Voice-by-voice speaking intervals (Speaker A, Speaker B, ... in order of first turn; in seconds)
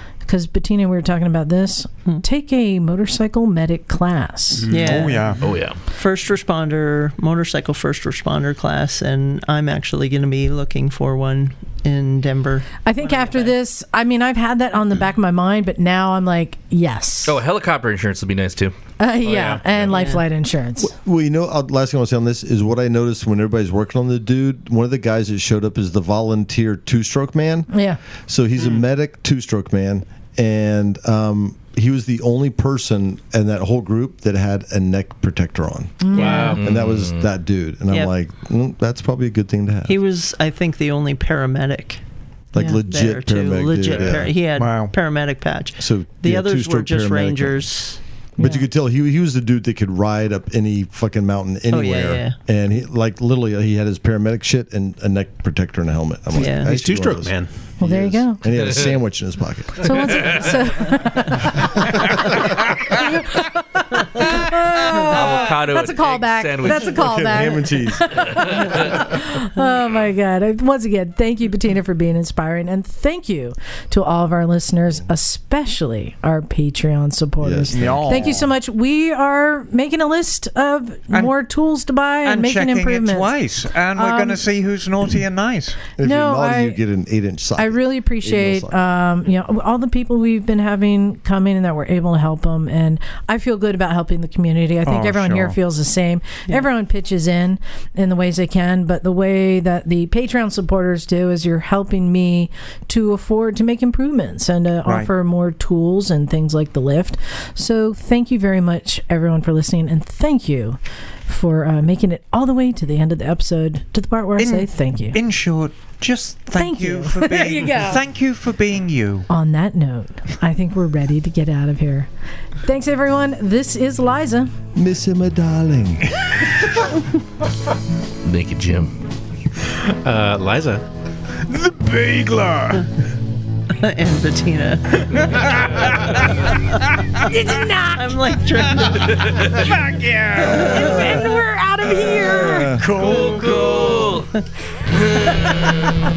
Speaker A: 0.2-4.7, 12.8-17.4, 19.0-20.9, 27.7-28.0, 36.0-36.6, 42.6-42.8, 48.4-48.6, 57.8-58.4, 59.8-62.1, 62.7-83.3, 84.0-84.4, 86.0-86.8, 87.6-115.2, 116.5-118.0, 119.3-122.1, 122.6-124.5, 137.2-138.2, 140.4-142.8
Speaker B: 4.6-5.1, 19.2-20.1, 36.1-36.7, 56.4-57.5, 129.9-130.8
Speaker C: 4.7-5.4, 5.9-13.5, 19.9-20.2, 39.9-42.0, 42.6-48.0, 51.7-52.4, 56.3-56.7, 133.7-136.6, 137.9-139.7, 140.4-141.4, 143.1-144.4
Speaker D: 4.7-5.4, 44.5-45.0, 77.7-78.4, 82.2-85.9, 94.8-95.6, 104.8-105.1, 114.4-119.3, 131.4-132.9, 135.4-136.2, 139.6-140.8, 142.8-143.6
Speaker E: 5.4-5.8, 17.3-18.8, 36.6-37.2, 60.0-60.6, 65.0-67.2, 68.3-68.9, 128.2-129.0, 138.9-139.6, 142.8-144.3, 144.9-146.0
Speaker F: 20.8-27.7, 28.3-39.9, 42.5-44.4, 45.8-47.6, 48.4-60.4, 61.5-62.8, 66.7-69.0, 77.4-78.5, 86.0-88.8, 124.8-126.4, 142.3-142.8